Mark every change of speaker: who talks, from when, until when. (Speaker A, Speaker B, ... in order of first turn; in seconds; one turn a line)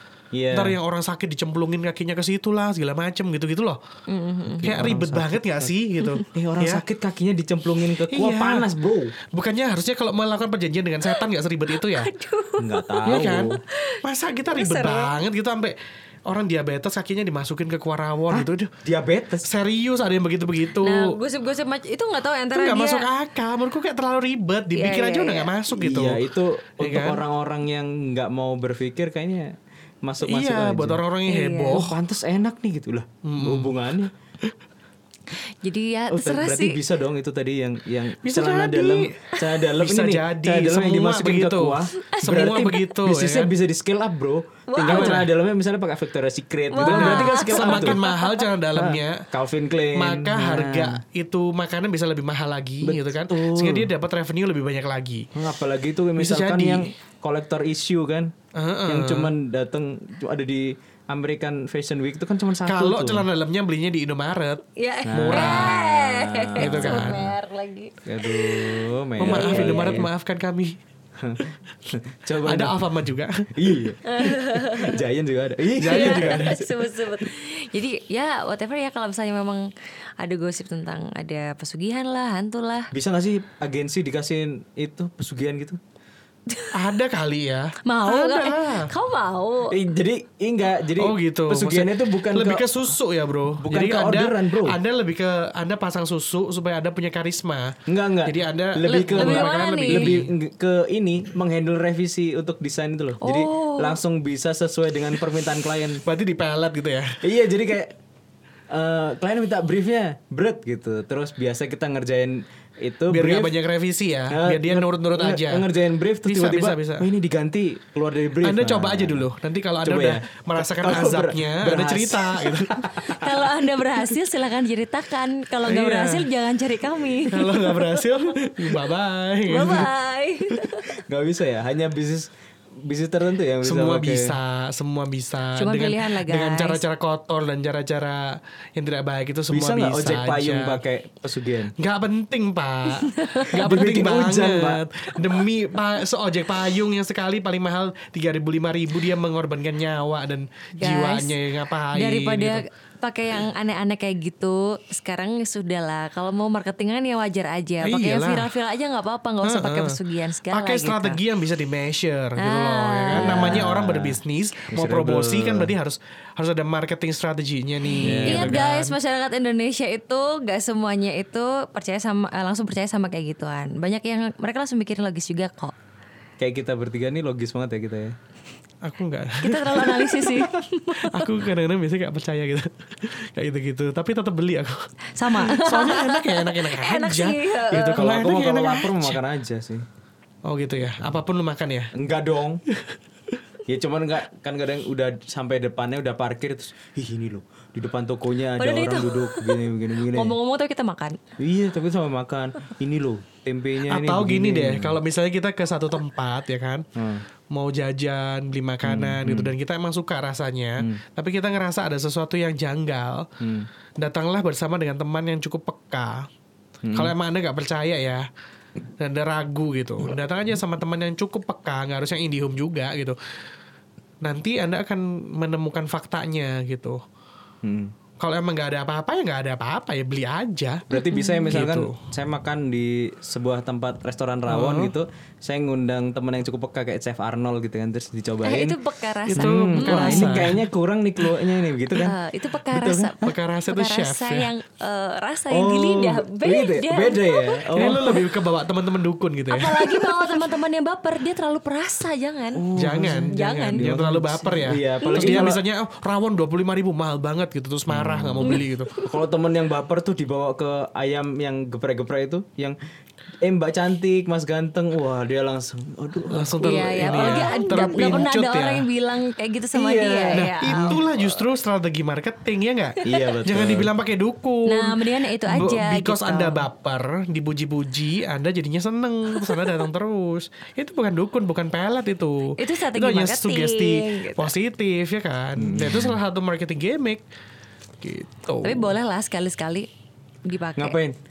Speaker A: 0.3-0.8
Speaker B: 0.5-3.8
Speaker C: 4.1-4.8
Speaker A: 4.6-5.7
Speaker B: 4.6-6.8
Speaker A: 6.3-9.2
Speaker B: 8.1-8.7
Speaker B: 9.2-12.1
Speaker C: 11.8-14.0
Speaker A: 12.6-13.6
Speaker B: 13.1-18.7
Speaker C: 14.5-15.1
Speaker A: 18.3-19.5
Speaker B: 19.4-21.1
Speaker C: 20.8-23.1
Speaker B: 22.5-26.2
Speaker C: 24.8-25.5
Speaker A: 25.7-31.0
Speaker B: 26.8-27.2
Speaker B: 30.3-32.0
Speaker C: 31.3-31.8
Speaker A: 31.7-34.1
Speaker B: 33.2-33.7
Speaker C: 35.6-36.8
Speaker A: 36.1-48.0
Speaker B: 38.2-39.1
Speaker B: 39.8-43.5
Speaker C: 42.0-42.7
Speaker C: 44.7-45.2
Speaker B: 44.9-45.3
Speaker C: 46.7-48.4
Speaker B: 46.8-49.3
Speaker A: 48.8-51.0
Speaker B: 50.0-55.3
Speaker A: 52.8-53.9
Speaker A: 55.4-58.3
Speaker B: 56.2-56.9
Speaker B: 58.5-59.3
Speaker A: 58.9-63.3
Speaker B: 62.7-65.8
Speaker C: 64.8-70.0
Speaker A: 65.1-67.2
Speaker B: 66.6-67.3
Speaker A: 68.0-70.1
Speaker B: 69.2-70.8
Speaker A: 71.2-72.8
Speaker B: 72.4-73.8
Speaker A: 73.5-76.9
Speaker C: 74.1-75.0
Speaker B: 75.8-76.5
Speaker C: 75.8-79.7
Speaker C: 80.2-82.9
Speaker A: 82.9-85.8
Speaker C: 86.5-86.8
Speaker B: 86.7-88.9
Speaker C: 87.9-89.8
Speaker A: 89.7-92.8
Speaker B: 91.0-100.3
Speaker A: 93.6-94.8
Speaker A: 97.9-106.0
Speaker C: 99.1-100.1
Speaker C: 103.2-104.0
Speaker B: 106.0-107.2
Speaker A: 107.2-108.0
Speaker A: 108.7-113.5
Speaker B: 113.1-115.7
Speaker A: 114.3-119.2
Speaker B: 116.3-117.1
Speaker B: 118.4-122.8
Speaker A: 119.8-123.4
Speaker C: 123.1-128.2
Speaker B: 125.7-126.3
Speaker B: 127.3-129.9
Speaker C: 129.5-130.9
Speaker A: 130.9-132.3
Speaker A: 132.8-134.3
Speaker B: 133.6-140.8
Speaker C: 135.6-136.8
Speaker A: 139.5-141.7
Speaker B: 141.8-152.6
Speaker C: 143.0-143.5
Speaker A: 143.5-144.8
Speaker C: 150.8-151.4
Speaker C: 151.9-161.2
Speaker B: 157.8-158.5
Speaker B: 159.4-160.0
Speaker B: 160.5-169.0
Speaker C: 162.4-163.5
Speaker A: 163.1-164.2
Speaker A: 164.7-165.7
Speaker A: 168.0-168.6
Speaker C: 168.2-175.7
Speaker A: 176.4-178.2
Speaker B: 178.8-180.4
Speaker C: 179.4-181.2
Speaker B: 181.0-189.2
Speaker C: 185.2-188.1
Speaker A: 187.9-189.8
Speaker B: 190.5-191.9
Speaker A: 191.9-192.6
Speaker A: 193.7-200.4
Speaker C: 198.6-201.2
Speaker A: 201.4-205.0
Speaker B: 203.9-206.9
Speaker A: 207.0-207.2
Speaker B: 207.5-213.3
Speaker A: 208.8-209.5
Speaker A: 213.4-213.7
Speaker B: 214.0-216.3
Speaker A: 216.8-217.1
Speaker B: 216.9-218.3
Speaker B: 219.0-223.2
Speaker B: 224.2-227.0
Speaker A: 227.6-227.9
Speaker B: 228.2-230.9
Speaker A: 230.9-238.8
Speaker C: 230.9-231.5
Speaker B: 231.5-232.0
Speaker B: 234.5-234.9
Speaker C: 238.4-240.5
Speaker B: 239.3-240.6
Speaker A: 239.4-243.2
Speaker C: 242.0-248.1
Speaker B: 243.2-244.5
Speaker A: 245.5-248.2
Speaker B: 247.8-250.3
Speaker C: 249.5-252.6
Speaker A: 252.5-255.6
Speaker B: 252.8-258.9
Speaker C: 253.3-253.9
Speaker C: 255.0-255.5
Speaker A: 257.9-262.8
Speaker C: 258.4-259.1
Speaker A: 263.4-268.3
Speaker B: 266.3-268.9
Speaker C: 266.6-271.0
Speaker A: 269.7-271.4
Speaker B: 270.4-287.2
Speaker A: 273.0-273.9
Speaker C: 274.7-276.6
Speaker C: 279.4-279.7
Speaker C: 282.6-284.5
Speaker A: 285.6-286.2
Speaker B: 288.0-288.9
Speaker C: 288.6-289.9
Speaker C: 290.5-291.0
Speaker A: 290.8-291.2